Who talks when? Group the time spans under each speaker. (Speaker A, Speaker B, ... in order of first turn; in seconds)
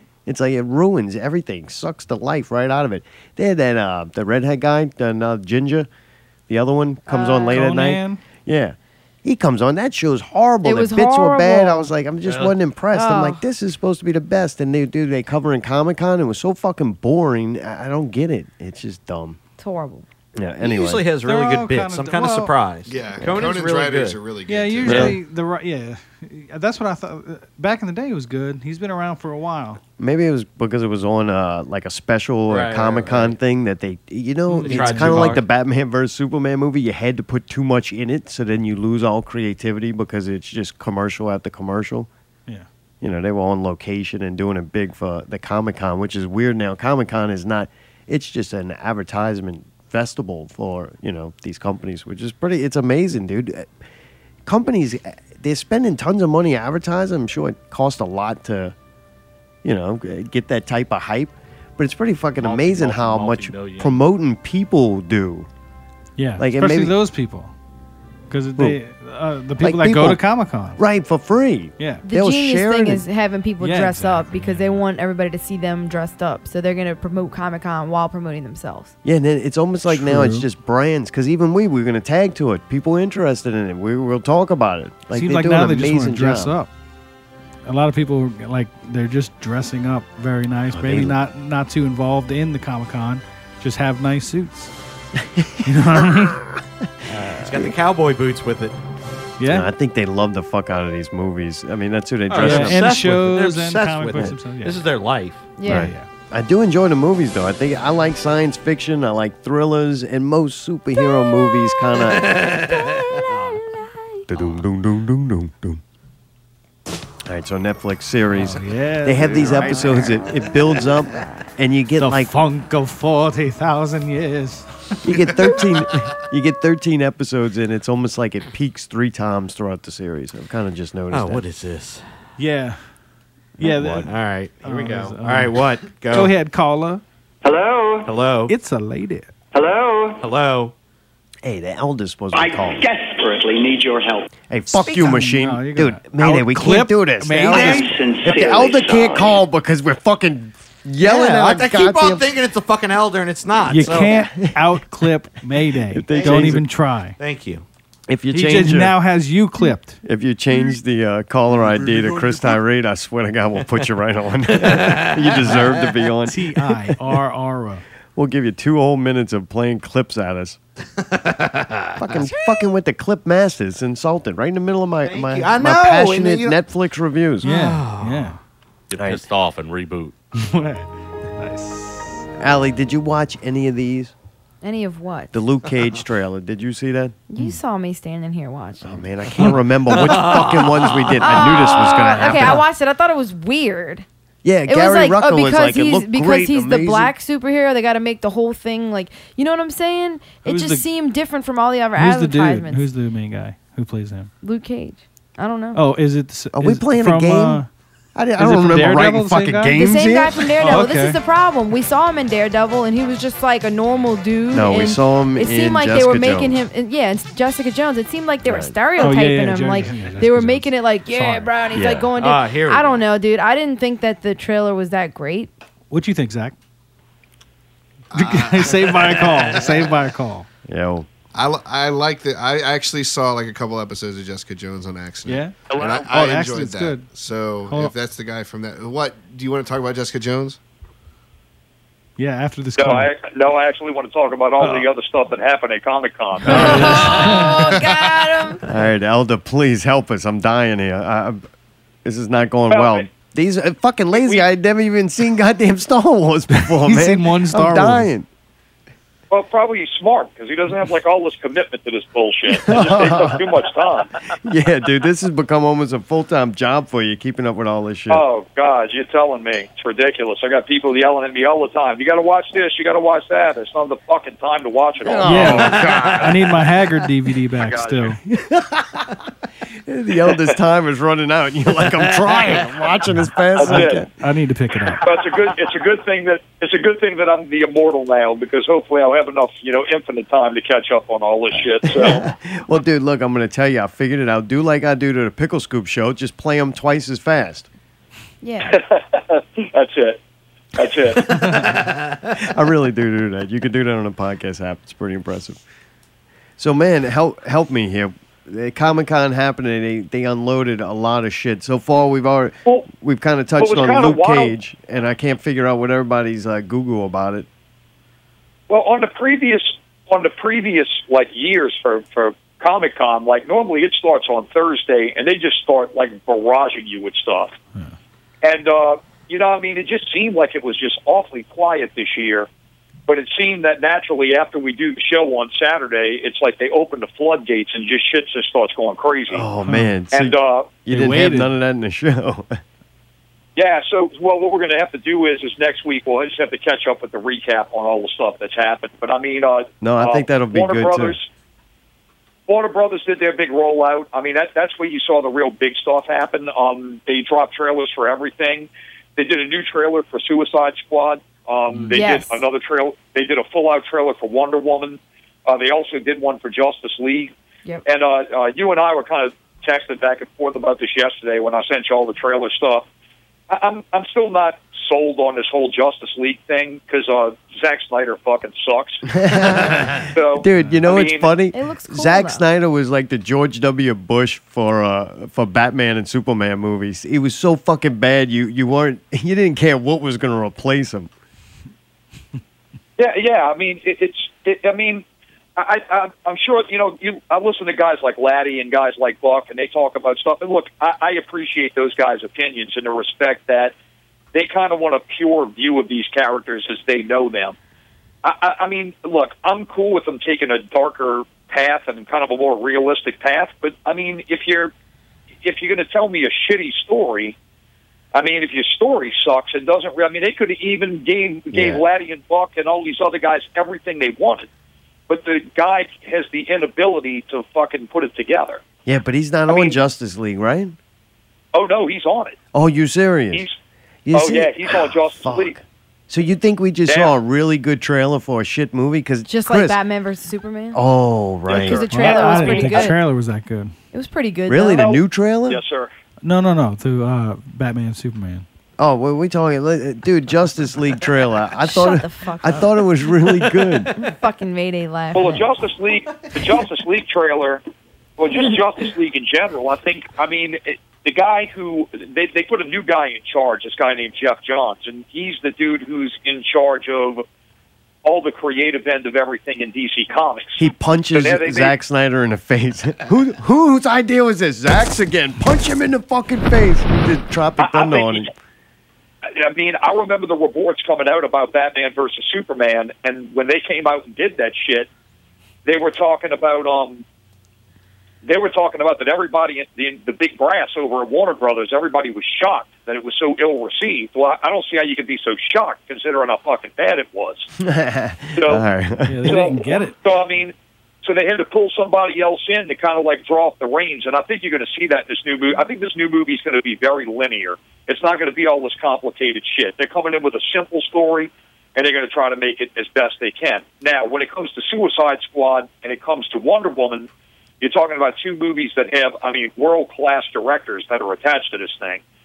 Speaker A: 0.2-5.9, 6.5-19.4, 20.4-21.1, 24.8-25.2, 30.0-42.1, 43.0-53.7, 54.5-58.7, 59.6-65.5, 66.4-67.0, 69.6-70.2, 70.8-73.0, 79.0-86.6, 90.7-91.2, 95.2-96.3, 97.1-97.7, 99.4-103.0, 105.6-112.5, 114.3-115.8, 117.2-122.3, 125.0-131.4, 133.6-134.1, 141.4-142.8, 144.5-152.3, 153.7-154.8, 155.9-156.7, 158.1-159.0, 160.0-167.0, 168.2-170.6, 172.0-177.5, 178.9-179.2, 182.4-184.1, 185.3-187.6, 188.8-192.7, 194.4-197.1, 206.5-207.6, 208.1-210.8, 214.5-216.5, 218.4-218.8, 221.7-222.1, 230.7-231.1, 246.4-247.5, 248.6-251.4, 252.0-258.3, 262.5-263.4, 264.4-268.2, 275.0-276.4, 278.3-278.8, 279.9-284.1, 291.6-297.7, 302.4-305.6, 306.6-317.5, 339.3-342.6, 349.8-351.2, 379.1-391.1, 421.5-421.8, 428.9-430.8, 432.5-433.4, 434.1-439.8, 440.7-442.8, 444.5-445.6, 448.8-453.9, 470.6-478.3, 497.6-499.5
Speaker B: 7.1-7.7, 10.6-11.9, 12.9-13.4, 19.6-20.0, 72.0-78.9, 105.6-105.9, 111.0-111.9, 112.7-114.3, 144.8-145.1, 184.6-185.4, 187.3-189.0, 191.2-194.0, 194.7-202.9, 204.4-205.8, 209.7-225.5, 246.5-248.6, 298.4-298.8, 361.9-362.4, 381.5-382.4, 439.3-440.8, 441.5-443.0, 443.9-445.0, 451.6-452.8, 453.9-455.4
Speaker C: 7.5-8.2, 21.2-22.5, 24.4-29.8, 34.7-35.2, 66.2-67.5, 68.3-70.8, 71.8-72.0, 73.6-74.8, 79.9-80.5, 85.1-86.7, 87.6-94.7, 95.6-96.4, 99.4-99.7, 102.3-104.8, 105.7-106.1, 118.3-120.1, 122.0-125.1, 132.4-132.9, 133.6-137.0, 138.5-139.3, 144.9-147.9, 153.7-157.2, 158.3-160.0, 166.2-167.8, 177.4-178.4, 180.3-182.2, 200.4-200.9, 201.9-204.3, 205.7-207.7, 208.4-209.8, 210.6-211.2, 219.0-221.5, 225.9-226.6, 228.1-230.5, 235.2-237.1, 237.6-237.9, 242.2-243.1, 244.6-244.9, 246.4-247.6, 256.8-258.1, 275.2-278.2, 283.6-285.0, 339.6-339.9, 340.9-341.5, 441.8-443.7, 446.2-448.4, 499.0-500.0
Speaker D: 12.3-12.5, 20.6-24.3, 32.5-33.4, 34.5-35.4, 97.1-98.8, 102.3-105.5, 112.0-113.6, 119.4-119.8, 131.1-132.1, 134.0-136.3, 138.0-138.5, 140.2-140.7, 151.0-154.3, 156.1-156.6, 157.2-157.6, 164.5-166.0, 171.1-172.4, 175.0-176.6, 177.4-178.4, 189.9-191.4, 222.1-223.0, 229.1-229.9, 275.5-276.4, 301.4-301.9
Speaker E: 22.9-25.1, 228.1-229.1, 231.3-240.6
Speaker F: 62.4-64.0, 178.9-180.1
Speaker G: 137.4-138.1, 139.5-140.2, 142.3-144.2, 147.6-149.2
Speaker H: 235.7-236.0, 242.8-247.3, 252.7-253.1, 254.1-254.4, 259.3-264.1, 268.1-276.2, 277.6-278.1, 283.5-284.1, 285.0-292.3, 298.6-300.2, 300.7-301.5, 313.6-314.5, 318.7-327.6, 328.4-332.5, 333.1-339.5, 340.1-340.8, 343.6-351.2, 352.5-367.3, 367.9-372.9, 373.5-379.0, 380.1-381.4, 393.0-395.0, 395.6-403.7, 404.3-407.6, 408.2-414.7, 415.4-417.3, 418.1-424.5, 425.1-428.6, 429.5-429.8, 431.5-432.4, 434.1-435.6, 436.9-437.1, 441.5-442.3, 445.5-445.9, 455.1-457.6, 458.2-467.2, 468.0-471.7, 477.6-478.3, 479.3-484.9, 485.6-487.0, 488.2-497.5, 498.3-498.6, 499.2-500.5, 501.0-517.1, 517.6-522.0